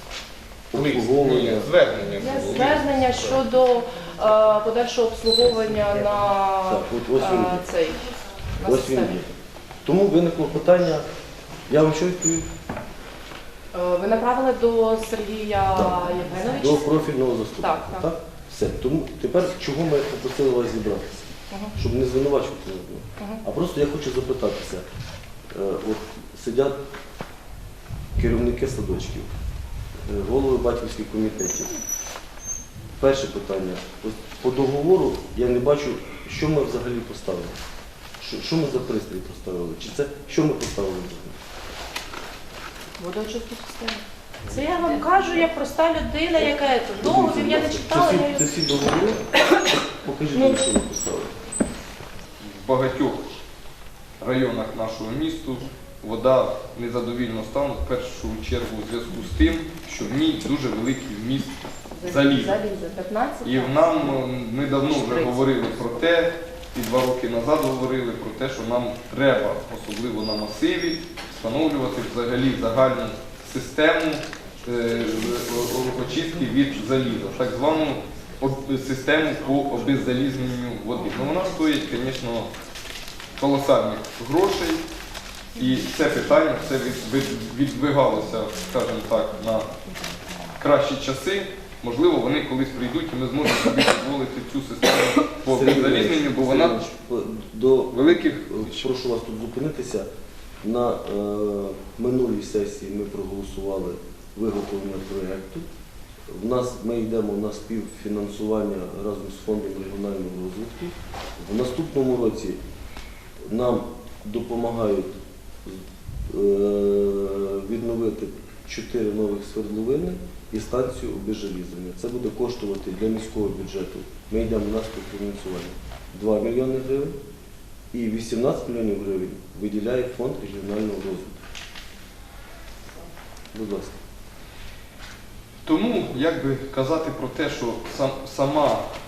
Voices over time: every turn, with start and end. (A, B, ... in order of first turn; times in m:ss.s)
0:00.7-0:01.7 A
0:00.7-0:02.9 B
0:02.2-0:09.2 C
0:06.6-0:07.6 A
0:08.6-0:09.3 A
0:09.8-0:11.0 A
0:11.7-0:12.5 A
0:13.7-0:17.1 C
0:15.7-0:16.0 A
0:16.6-0:21.2 A
0:17.6-0:18.1 C
0:21.8-0:24.8 A
0:25.5-0:26.8 A
0:28.2-0:29.3 A
0:30.0-0:31.8 A
0:33.0-0:37.6 A
0:38.2-0:41.4 A
0:43.0-0:48.4 C
0:46.4-0:49.2 A
0:50.0-0:51.3 A
0:50.3-0:50.6 C
0:52.4-0:53.3 B
0:54.2-1:02.6 B
1:01.9-1:04.2 C
1:03.4-1:22.5 B
1:04.8-1:05.5 C
1:23.4-1:24.8 B
1:25.5-1:29.7 B
1:30.6-1:36.8 B
1:35.5-1:40.1 A
1:37.9-1:38.8 B
1:40.6-1:45.6 A
1:46.3-1:52.6 A
1:53.4-2:07.2 A
2:07.9-2:11.4 A
2:13.5-2:14.0 A
2:15.6-2:18.9 B